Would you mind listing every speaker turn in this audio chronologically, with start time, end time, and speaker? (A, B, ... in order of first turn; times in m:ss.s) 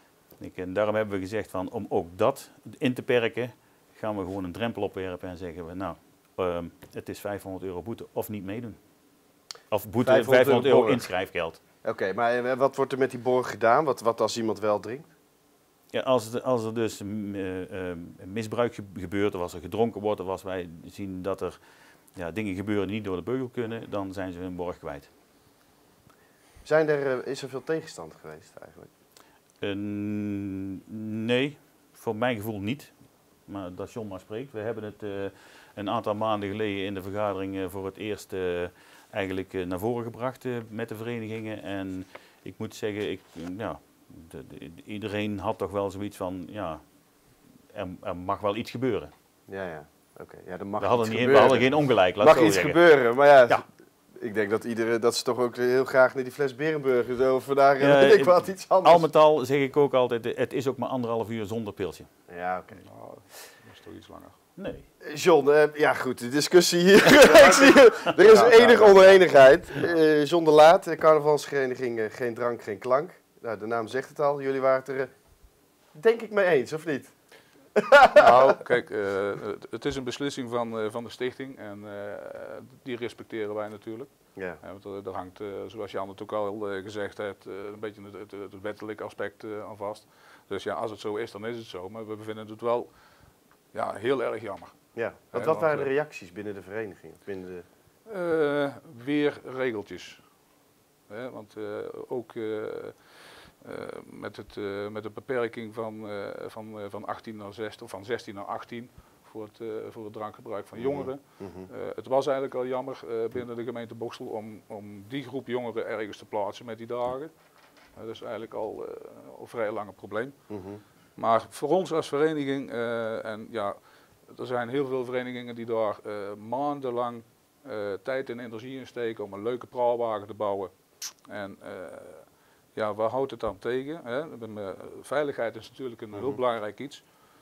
0:00.4-0:08.8 A
0:09.7-0:11.6 A
0:10.0-0:11.1 B
0:11.8-0:15.1 B
0:15.9-0:21.6 A
0:22.1-0:25.1 A
0:26.6-0:28.9 B
0:29.6-0:32.9 A
0:33.4-0:46.8 A
0:47.7-0:49.1 A
0:49.5-0:53.6 B
0:50.8-0:52.8 A
0:54.2-0:59.0 B
0:57.8-1:02.1 A
1:02.3-1:02.8 B
1:02.8-1:04.4 C
1:04.6-1:04.8 A
1:05.0-1:15.1 B
1:07.1-1:09.3 A
1:15.9-1:17.1 B
1:17.8-1:18.6 B
1:18.2-1:32.9 C
1:33.7-1:34.7 C
1:34.9-1:37.6 B
1:35.3-1:35.9 C
1:38.0-1:40.2 C
1:41.1-1:43.0 C
1:43.6-1:57.3 C
1:50.8-1:51.7 B
1:58.0-2:00.5 C
2:00.5-2:00.8 B
2:01.2-2:10.7 C
2:11.3-2:17.0 C
2:16.1-2:16.4 B